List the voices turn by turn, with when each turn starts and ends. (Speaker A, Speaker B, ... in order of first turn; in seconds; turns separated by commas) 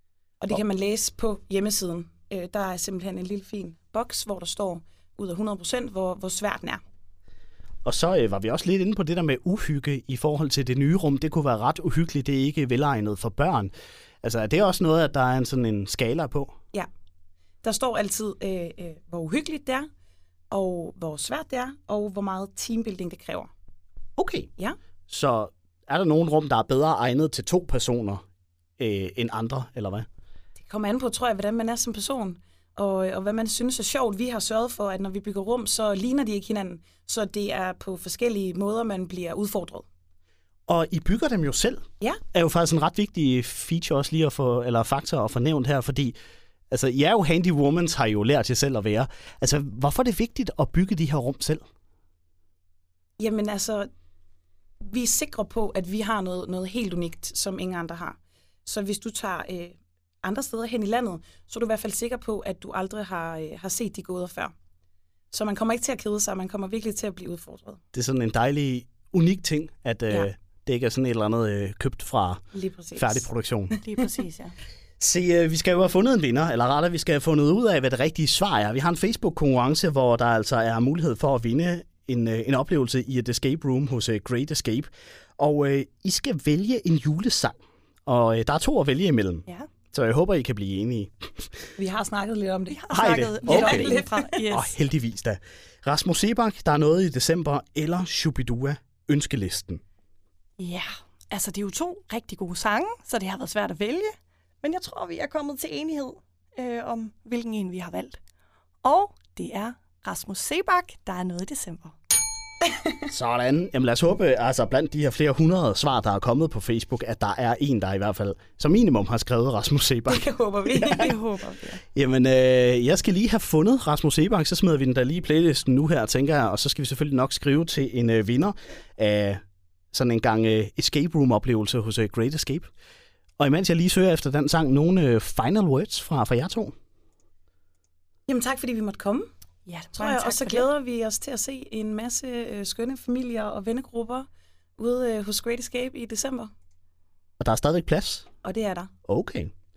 Speaker A: 0.4-6.8, Speaker B: 7.8-13.7, Speaker B: 14.2-16.5, Speaker A: 17.6-19.9, Speaker A: 20.5-23.5, Speaker B: 24.2-24.5, Speaker B: 25.1-28.2, Speaker B: 28.8-30.1, Speaker A: 30.6-39.8, Speaker B: 40.7-46.1, Speaker B: 46.7-51.6, Speaker A: 53.2-53.9, Speaker A: 54.8-64.5, Speaker A: 65.3-67.8, Speaker B: 67.9-72.4, Speaker A: 72.5-73.8, Speaker B: 73.0-73.8, Speaker C: 73.8-74.5, Speaker B: 75.0-91.5, Speaker A: 91.8-94.5, Speaker C: 92.7-94.7, Speaker B: 92.9-99.8, Speaker C: 100.6-108.2, Speaker C: 108.8-111.9, Speaker A: 112.7-113.0, Speaker B: 113.1-120.3, Speaker A: 120.1-121.2, Speaker C: 120.8-121.8, Speaker B: 121.9-129.4, Speaker B: 129.9-132.7, Speaker B: 133.4-136.7, Speaker A: 138.3-139.3, Speaker C: 139.7-140.7, Speaker A: 139.9-144.3, Speaker A: 144.8-146.5, Speaker B: 147.4-148.2, Speaker A: 148.4-148.9, Speaker B: 149.1-149.5